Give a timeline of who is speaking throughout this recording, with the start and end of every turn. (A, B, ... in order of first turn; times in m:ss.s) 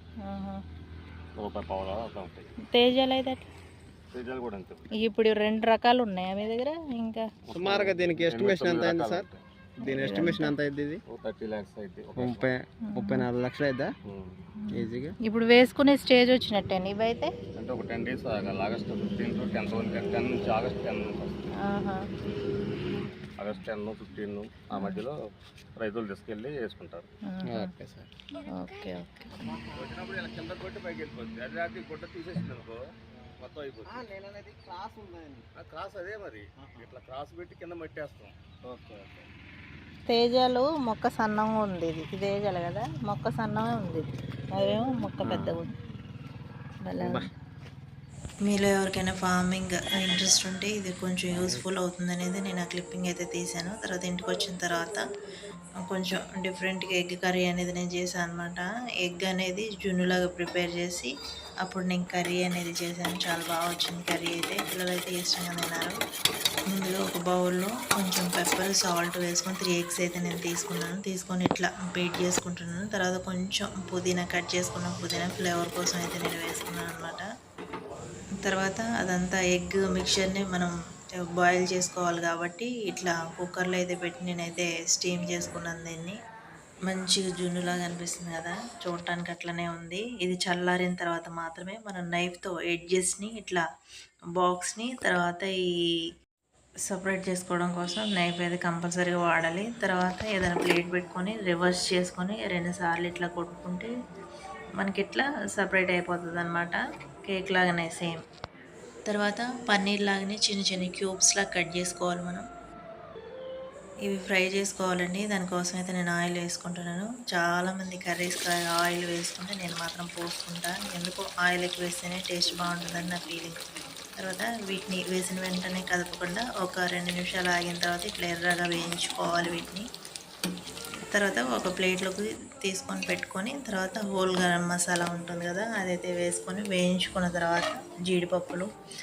0:00.2-0:00.6 A
0:01.4-0:02.5 B
0:02.7-0:03.4 A
0:04.1-0:04.9 B
0:05.0-0:07.2 A
0:07.5-0:09.4 B
0:07.5-0:09.3 C
0:09.8-0:11.0 C
0:09.9-0:10.5 A
0:11.1-0:12.5 B
0:12.2-0:13.9 C
0:12.9-0:13.3 A
0:14.1-0:14.4 B
0:14.7-0:15.1 C
0:15.3-0:17.3 A
0:17.6-0:21.4 B
0:21.7-0:22.0 A
0:23.4-0:25.2 B
0:25.8-0:27.1 B
0:27.3-0:27.7 A
0:27.5-0:28.1 C
0:28.5-0:29.3 A
0:29.5-0:29.9 C
0:29.8-0:32.8 B
0:33.4-0:34.0 B
0:33.9-0:35.4 C
0:35.6-0:38.3 B
0:38.7-0:39.3 C
0:40.1-0:45.7 A
0:45.2-0:45.6 C
0:46.9-0:47.2 A
0:47.0-0:47.3 C
0:48.5-0:55.0 D
0:51.4-0:51.7 C
0:55.8-1:01.1 D
1:01.6-1:06.0 D
1:06.7-1:17.2 D
1:18.4-1:20.7 D
1:21.4-1:26.2 D
1:26.9-1:33.6 D
1:34.4-1:35.6 D
1:36.9-1:43.9 D
1:44.8-1:48.2 D
1:49.1-1:52.4 D
1:54.1-2:03.6 D
2:04.2-2:09.9 D
2:11.1-2:18.7 D